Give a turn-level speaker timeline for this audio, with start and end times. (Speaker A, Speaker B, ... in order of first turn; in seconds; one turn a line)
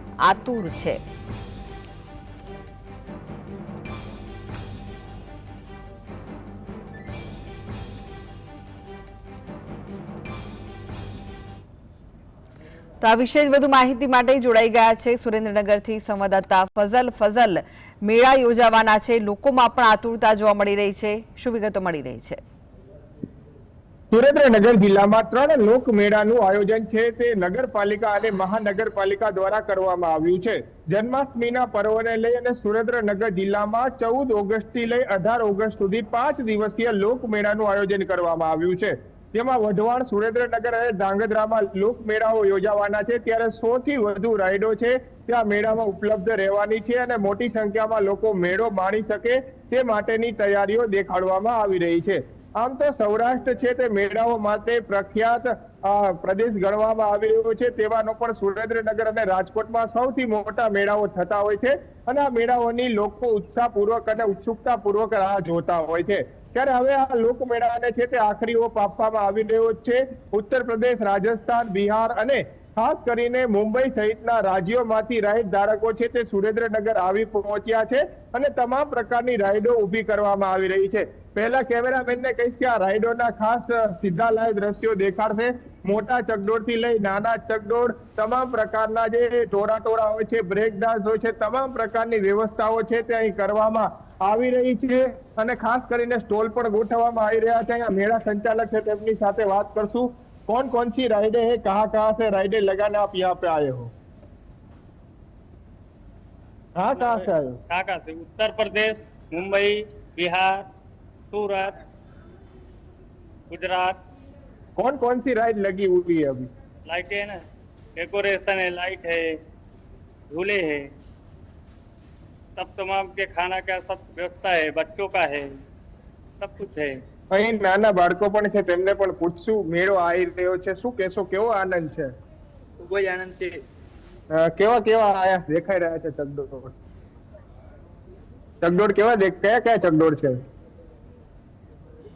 Speaker A: 0.2-1.0
Speaker A: 13.0-22.4
Speaker B: 24.1-103.9
Speaker B: 106.8-107.6
Speaker C: 106.9-110.7
Speaker C: 111.3-111.8
Speaker C: 113.5-114.0
Speaker B: 114.8-116.5
Speaker C: 116.8-117.4
Speaker C: 118.0-119.3
Speaker C: 120.3-120.9
Speaker C: 122.5-125.5
Speaker C: 126.4-126.9
Speaker B: 127.3-132.1
Speaker C: 132.8-133.6
Speaker B: 134.3-136.7
Speaker B: 138.6-140.3